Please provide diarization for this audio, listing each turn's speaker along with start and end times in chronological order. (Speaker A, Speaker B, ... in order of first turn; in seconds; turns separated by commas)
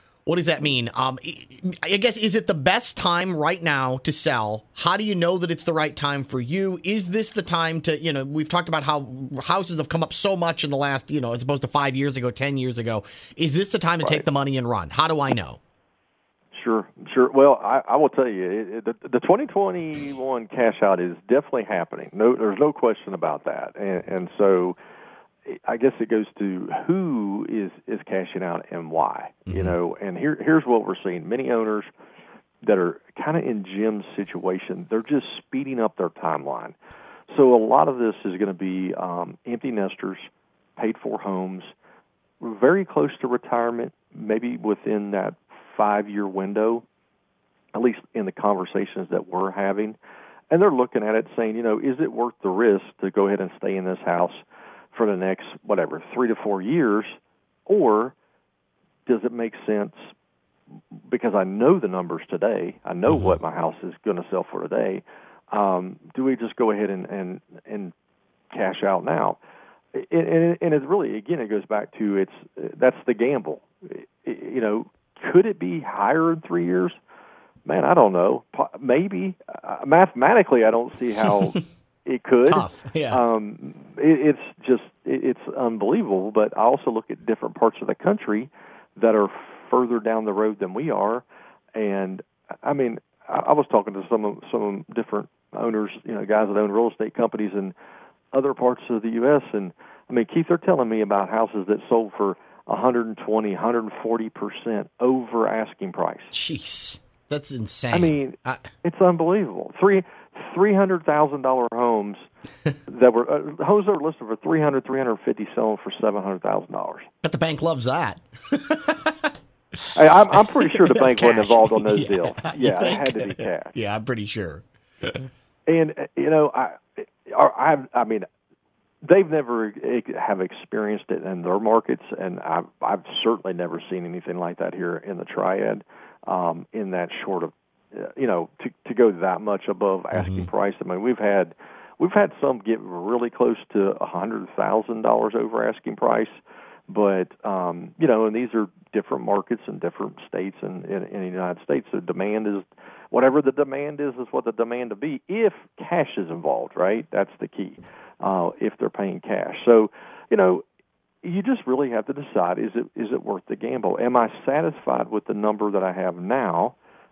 Speaker A: 0.3-15.6, Speaker B: 14.0-14.3, Speaker B: 16.5-24.8, Speaker B: 25.5-31.9, Speaker A: 29.5-29.8, Speaker B: 32.6-36.8, Speaker B: 37.3-40.2, Speaker B: 40.8-41.7, Speaker B: 42.4-46.8, Speaker B: 47.7-50.0, Speaker B: 50.5-57.2, Speaker B: 57.7-58.1, Speaker B: 59.1-60.1, Speaker B: 61.1-67.9, Speaker A: 63.1-63.4, Speaker B: 68.5-69.4, Speaker B: 69.9-76.9, Speaker B: 77.7-91.2, Speaker A: 82.5-83.2, Speaker B: 91.8-97.7, Speaker B: 98.3-106.3, Speaker A: 106.3-108.7, Speaker B: 107.9-112.2, Speaker B: 112.9-117.1, Speaker A: 117.2-119.3, Speaker B: 120.0-123.8, Speaker A: 120.9-125.3, Speaker B: 125.7-128.3, Speaker B: 129.0-146.4, Speaker A: 140.1-140.5, Speaker B: 146.9-160.7, Speaker B: 161.2-166.8